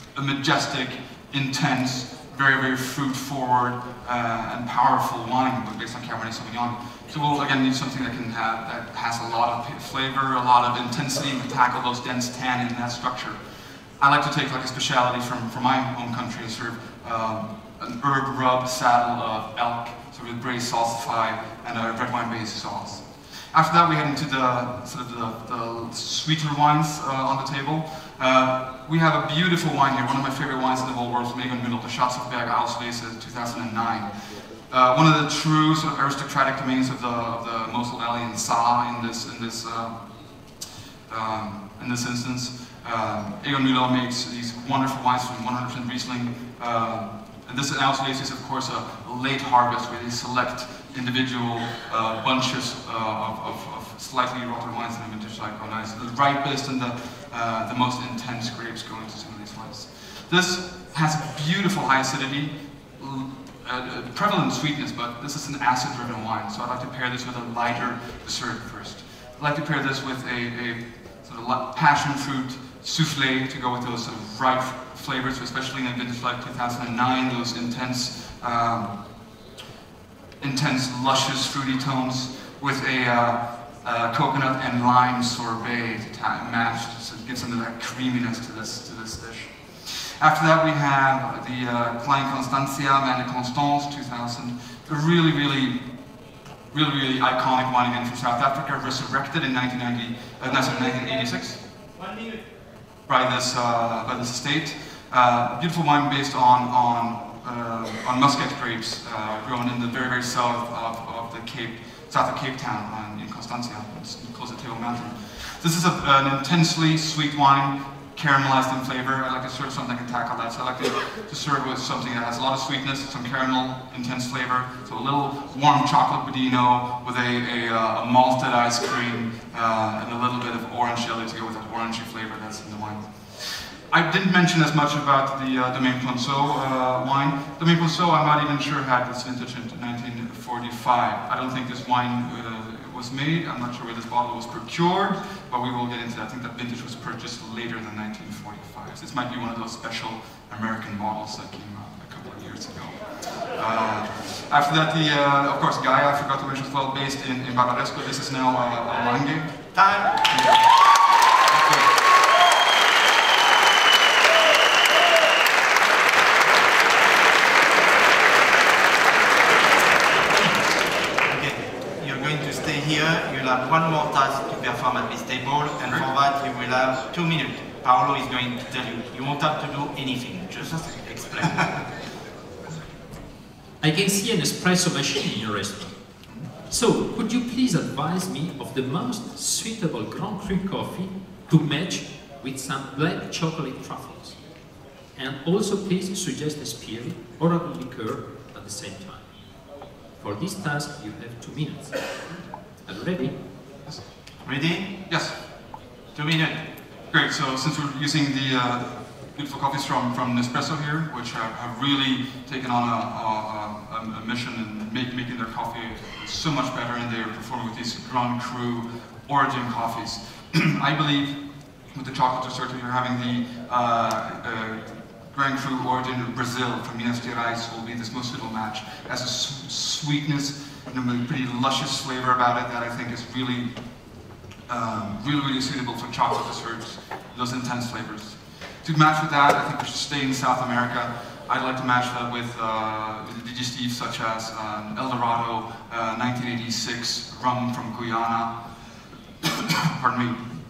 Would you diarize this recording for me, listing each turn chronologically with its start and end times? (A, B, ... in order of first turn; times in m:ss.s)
0:00.1-0:13.4 A
0:14.0-0:40.0 A
0:41.1-1:18.9 A
1:20.4-1:35.8 A
1:36.7-1:41.6 A
1:43.1-2:40.8 A
2:39.7-2:40.3 B
2:41.5-2:41.9 A
2:51.2-3:01.8 B
3:00.7-3:01.8 A
3:03.8-3:06.0 C
3:06.7-3:14.4 C
3:15.2-3:19.3 C
3:20.2-3:22.1 C
3:22.8-3:23.4 C
3:24.4-3:24.9 B
3:25.1-3:25.4 A
3:26.1-3:26.6 B
3:27.1-3:41.3 A
3:41.9-3:53.7 A
3:54.7-4:08.5 A
4:09.4-4:10.6 A